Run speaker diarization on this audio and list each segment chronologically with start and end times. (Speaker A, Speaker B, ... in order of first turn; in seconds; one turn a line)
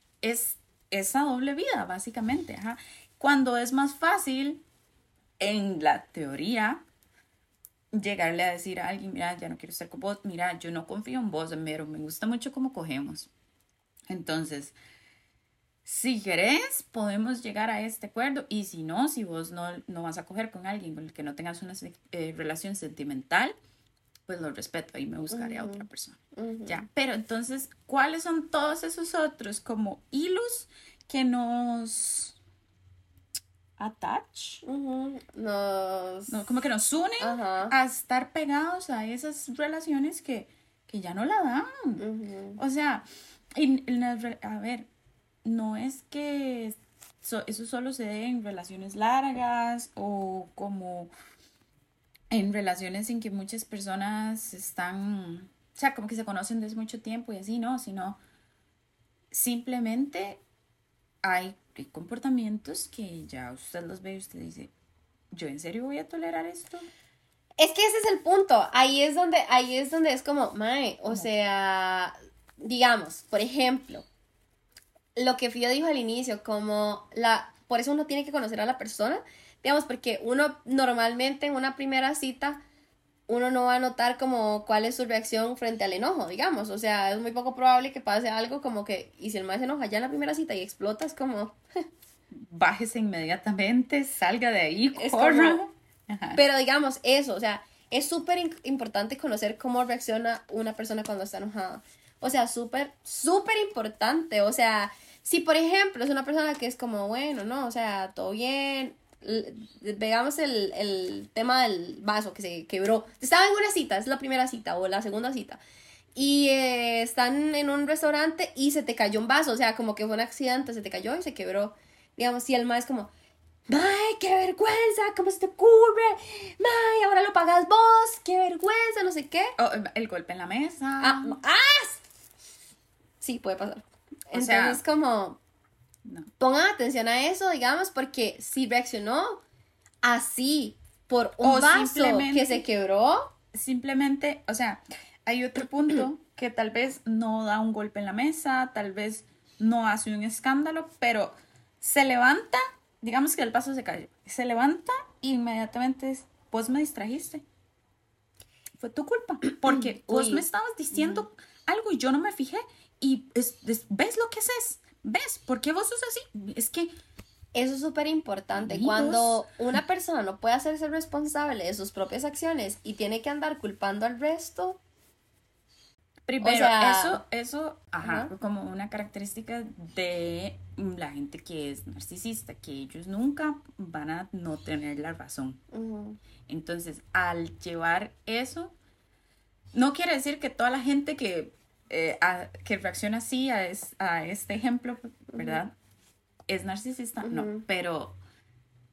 Speaker A: 0.2-4.6
Speaker A: 5.4-6.8
Speaker A: 7.9-13.3
Speaker A: 14.1-14.8
Speaker A: 15.8-23.6
Speaker A: 24.3-32.4
Speaker B: 25.3-26.9
Speaker A: 33.8-34.6
Speaker B: 34.6-36.5
Speaker A: 36.3-42.0
Speaker B: 37.2-37.7
Speaker B: 42.0-42.6
Speaker A: 42.6-44.9
Speaker A: 45.4-51.1
Speaker A: 52.3-58.2
Speaker A: 59.3-60.4
Speaker A: 61.2-64.7
Speaker A: 65.3-66.9
Speaker B: 67.6-74.1
Speaker B: 75.2-82.6
Speaker B: 83.3-91.6
Speaker A: 92.3-96.4
Speaker B: 95.0-95.6
Speaker B: 96.3-115.6
Speaker B: 116.2-123.1
Speaker B: 123.7-129.6
Speaker A: 129.6-131.4
Speaker B: 131.0-132.0
Speaker B: 133.2-135.4
Speaker A: 134.3-134.8
Speaker B: 136.4-139.4
Speaker B: 140.0-143.3
Speaker A: 141.4-142.6
Speaker A: 143.5-157.4
Speaker A: 158.8-166.9
Speaker B: 160.0-160.4
Speaker B: 167.5-174.8
Speaker A: 168.6-169.5
Speaker A: 176.3-185.6
Speaker B: 176.4-177.2
Speaker B: 178.0-178.3
Speaker B: 185.7-186.2
Speaker A: 186.5-188.8
Speaker A: 189.7-195.7
Speaker B: 195.3-195.6
Speaker A: 196.5-198.2
Speaker B: 197.2-197.7